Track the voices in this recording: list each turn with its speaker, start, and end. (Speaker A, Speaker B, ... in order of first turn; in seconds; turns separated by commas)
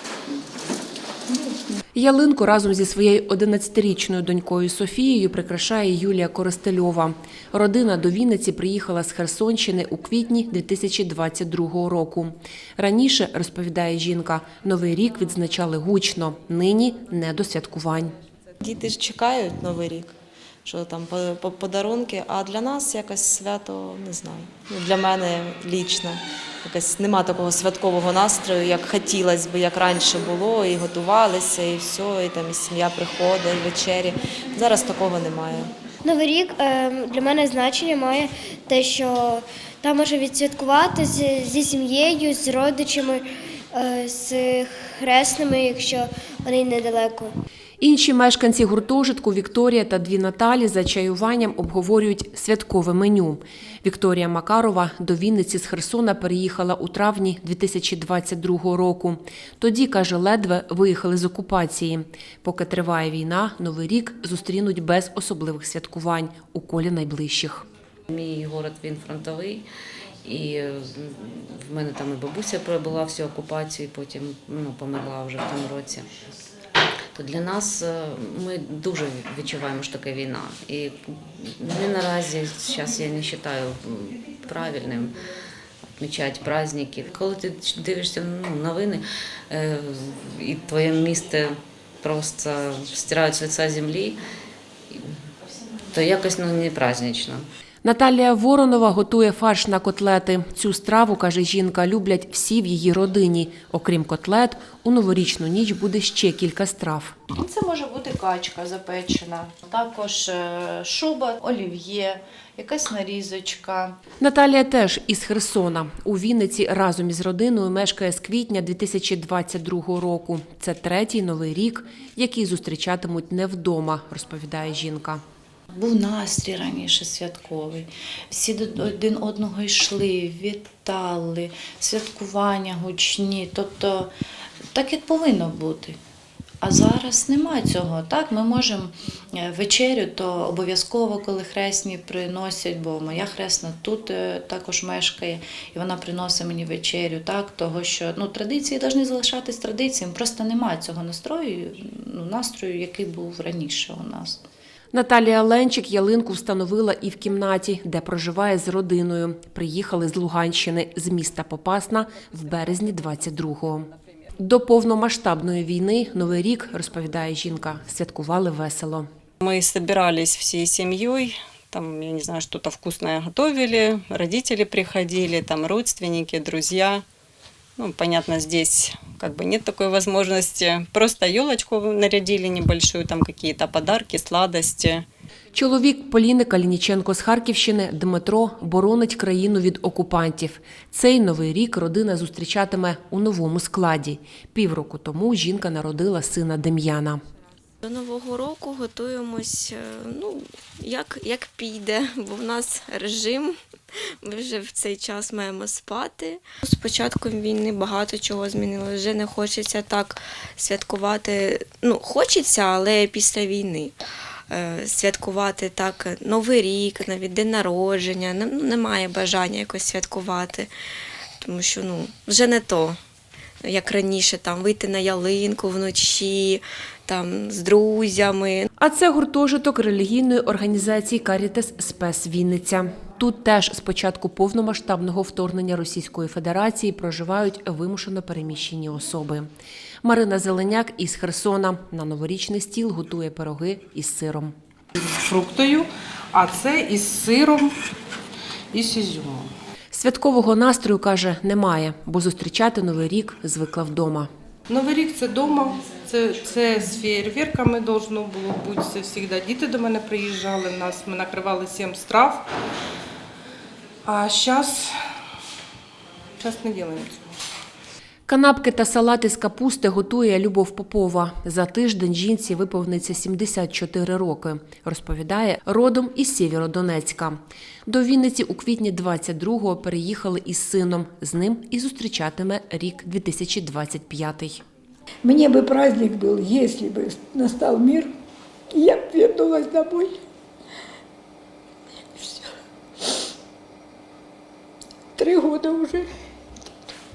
Speaker A: 1.9-18.1, Speaker B: 18.6-20.1, Speaker B: 20.6-35.7, Speaker C: 36.0-47.3, Speaker A: 47.8-67.6, Speaker D: 68.1-69.6, Speaker D: 70.2-76.1, Speaker D: 77.1-85.2, Speaker D: 86.0-94.2, Speaker D: 95.9-97.4, Speaker A: 97.8-107.2, Speaker E: 107.3-114.0, Speaker A: 114.2-125.2, Speaker E: 125.7-134.1, Speaker E: 134.7-136.0, Speaker E: 136.6-154.4, Speaker A: 154.9-163.9, Speaker A: 164.4-169.1, Speaker F: 169.4-177.0, Speaker F: 177.8-185.0, Speaker A: 185.5-197.2, Speaker G: 197.8-203.6, Speaker G: 204.2-213.9, Speaker G: 214.5-220.7, Speaker G: 221.4-223.0, Speaker G: 223.6-228.7, Speaker A: 228.8-239.5, Speaker A: 240.0-244.5, Speaker H: 245.0-247.7, Speaker H: 248.7-249.5, Speaker A: 249.9-254.3, Speaker H: 254.7-262.4, Speaker H: 264.1-264.9, Speaker H: 266.4-267.3, Speaker A: 268.3-284.6, Speaker I: 285.2-288.1, Speaker I: 288.7-290.2, Speaker I: 292.1-292.5, Speaker I: 295.1-296.1